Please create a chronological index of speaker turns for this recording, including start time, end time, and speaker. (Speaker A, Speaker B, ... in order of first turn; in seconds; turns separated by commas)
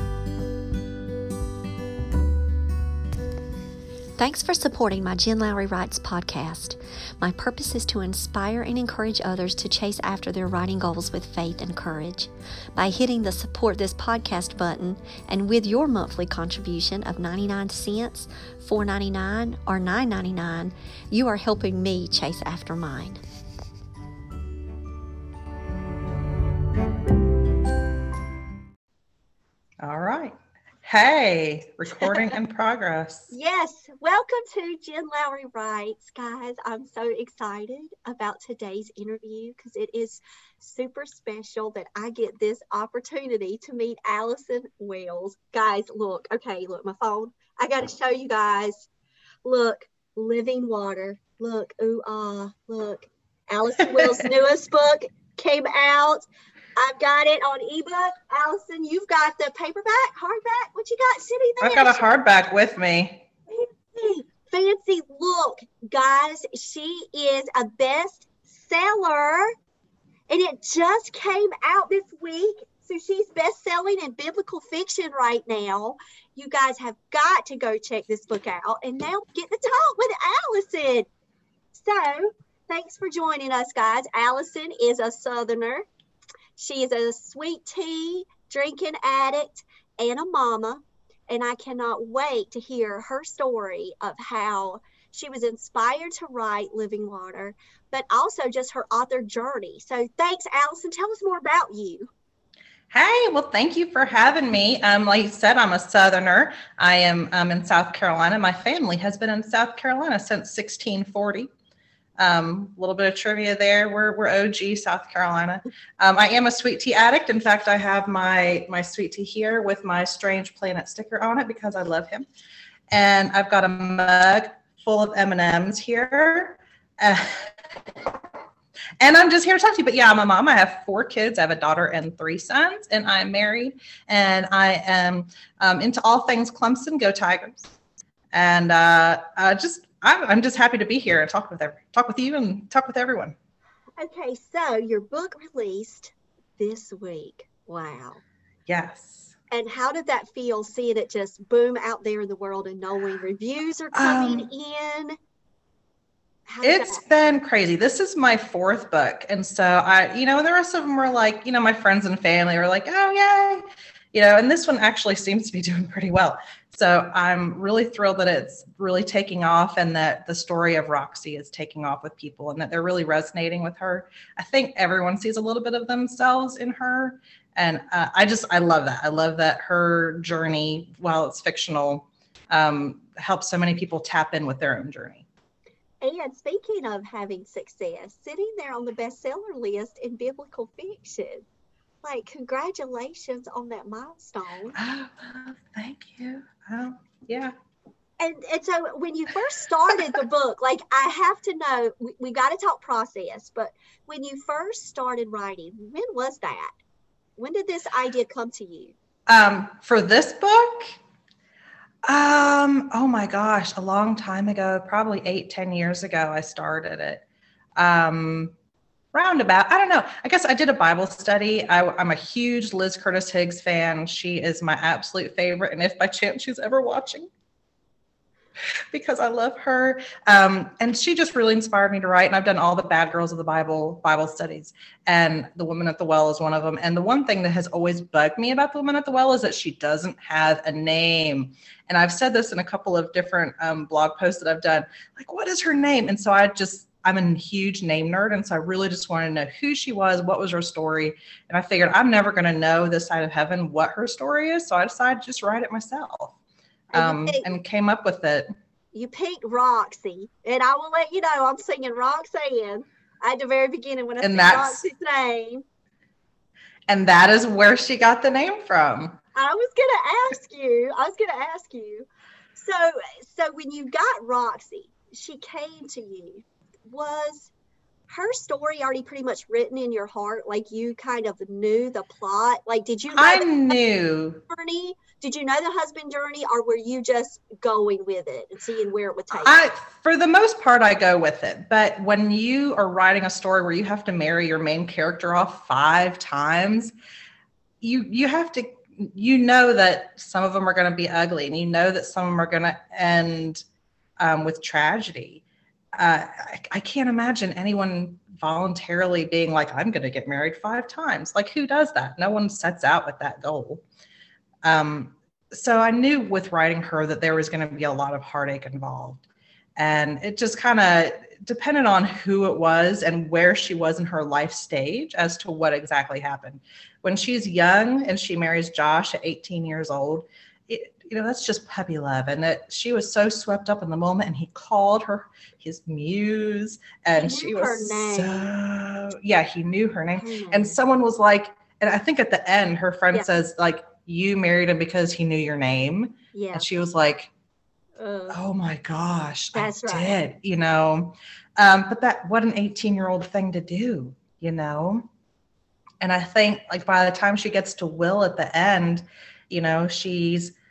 Speaker A: 4.2-23.2, Speaker B: 29.8-33.3, Speaker C: 32.0-32.3, Speaker C: 33.3-48.9, Speaker C: 49.4-56.2, Speaker C: 56.8-62.0, Speaker B: 61.6-63.2, Speaker C: 63.5-69.5, Speaker C: 70.3-81.1, Speaker C: 81.7-85.8, Speaker C: 86.5-102.1, Speaker B: 102.9-111.5, Speaker B: 112.2-122.2, Speaker B: 122.9-128.2, Speaker B: 129.0-137.7, Speaker B: 138.3-143.3, Speaker C: 144.0-148.2, Speaker B: 148.7-149.3, Speaker C: 149.5-155.2, Speaker B: 153.9-154.5, Speaker C: 156.5-157.0, Speaker B: 156.6-185.2, Speaker C: 186.0-191.4, Speaker C: 192.0-194.8, Speaker B: 194.7-197.5, Speaker C: 198.2-206.7, Speaker C: 207.4-208.9, Speaker B: 209.3-210.9, Speaker B: 212.0-217.2, Speaker B: 217.8-218.5, Speaker B: 219.1-227.3, Speaker B: 228.9-256.3, Speaker B: 256.9-258.5, Speaker C: 256.9-257.4, Speaker C: 258.9-265.6, Speaker B: 264.2-264.8, Speaker B: 266.9-269.2, Speaker C: 269.3-277.5, Speaker C: 278.1-283.7, Speaker B: 283.1-284.4, Speaker C: 284.5-289.6, Speaker B: 289.3-296.9, Speaker B: 297.8-303.6, Speaker B: 304.2-305.4, Speaker B: 305.9-313.8, Speaker B: 314.6-319.2, Speaker B: 319.8-347.3, Speaker C: 337.1-338.5, Speaker C: 340.1-340.8, Speaker C: 346.3-346.7, Speaker C: 348.0-348.4, Speaker B: 348.3-355.1, Speaker C: 349.5-350.1, Speaker B: 356.0-360.5